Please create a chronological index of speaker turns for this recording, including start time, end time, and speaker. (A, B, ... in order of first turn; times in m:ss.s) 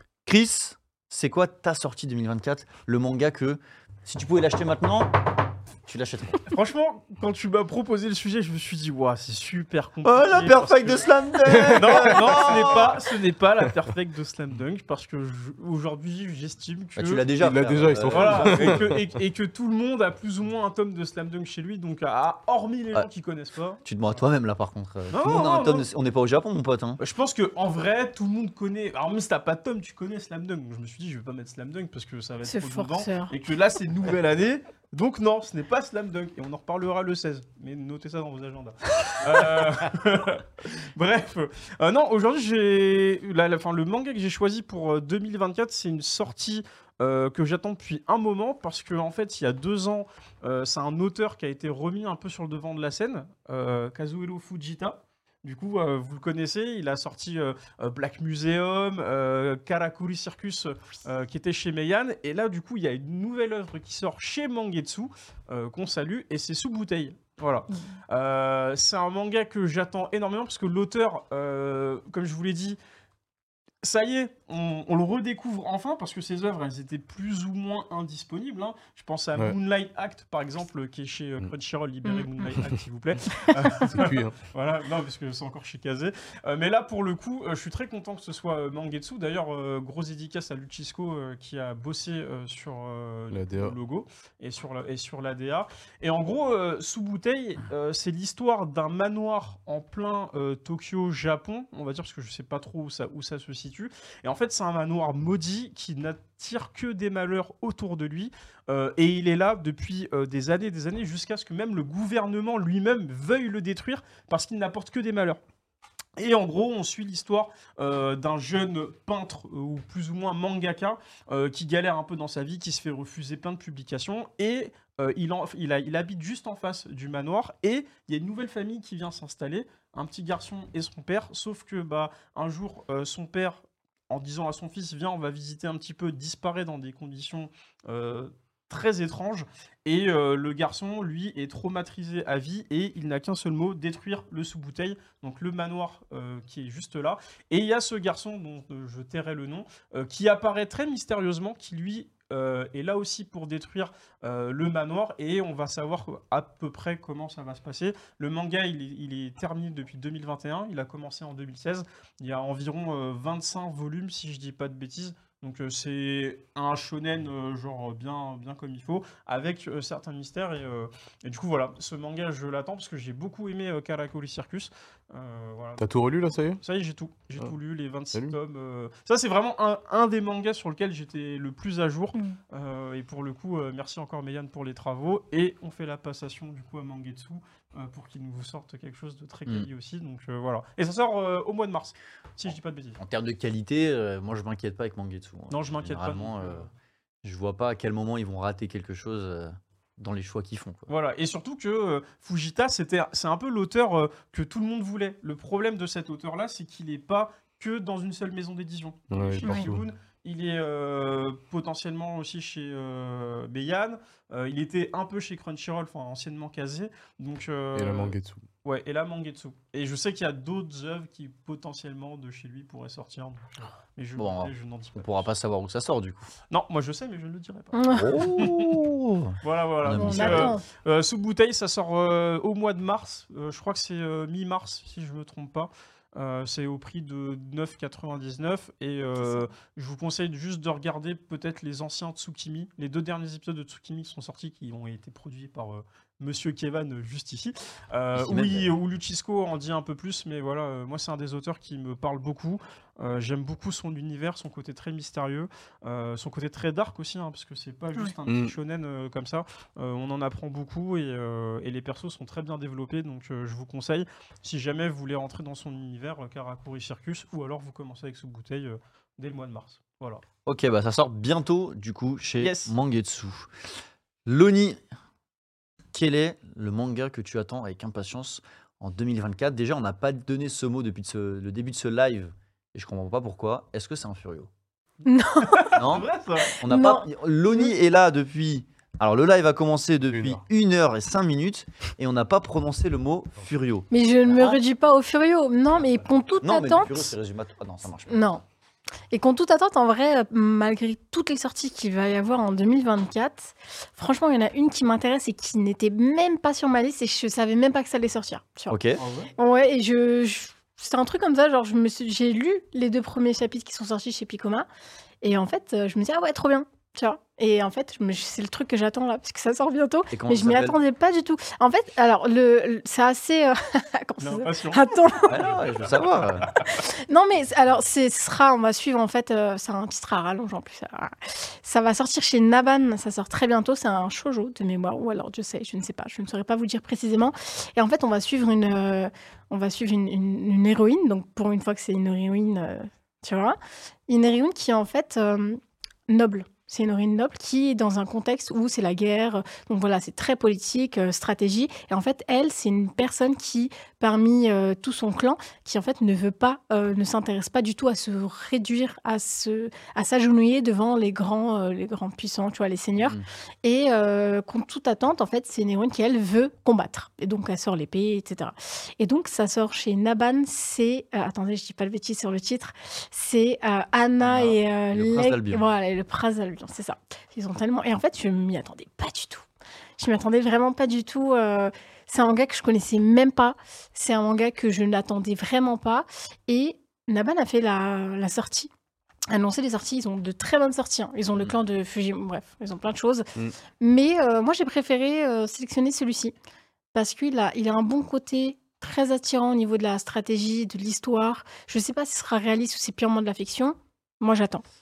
0:00.3-0:05.3 A
0:05.9-0:06.4 A
0:06.5-0:11.1 B
0:10.0-0:13.0 A
0:11.7-0:17.3 B
0:17.0-0:18.8 A
0:17.4-0:19.0 C
0:18.1-0:23.8 B
0:23.8-0:27.0 A
0:25.1-0:25.9 B
0:27.0-1:12.8 B
0:32.5-0:33.3 D
1:13.8-1:55.4 B
1:22.0-1:22.6 D
1:23.9-1:24.4 C
1:33.3-1:33.8 C
1:56.2-2:55.9 B
2:55.8-2:56.6 C
2:56.6-3:13.0 B
3:13.0-3:16.7 A
3:15.5-3:16.7 B
3:17.2-3:20.9 A
3:20.9-3:45.3 B
3:29.1-3:29.8 C
3:37.8-3:38.4 C
3:44.2-3:46.3 A
3:46.5-3:48.8 B
3:47.7-3:48.5 D
3:47.9-3:50.6 A
3:49.4-4:30.2 B
3:49.9-3:50.6 D
3:59.2-3:59.5 D
4:08.2-4:08.7 A
4:30.5-4:33.5 A
4:32.4-4:32.7 B
4:34.3-4:34.8 A
4:35.9-4:44.5 A
4:45.0-4:45.7 D
4:45.4-4:46.6 B
4:45.7-4:53.9 A
4:46.6-4:47.7 D
4:50.1-4:50.4 C
4:53.9-4:57.1 D
4:56.4-4:58.3 A
4:58.1-4:58.4 D
4:59.1-5:08.8 D
5:08.7-5:09.0 A
5:09.0-5:09.3 B
5:09.3-5:14.7 D
5:15.2-5:25.5 D
5:20.1-5:20.8 A
5:24.2-5:24.8 B
5:25.3-5:26.5 A
5:25.9-5:26.7 B
5:26.7-5:43.6 D
5:44.1-6:19.5 D
6:03.0-6:03.3 A
6:14.2-6:15.6 A
6:20.0-6:28.7 D
6:29.3-6:33.3 D
6:33.8-6:36.4 D
6:36.9-6:44.6 D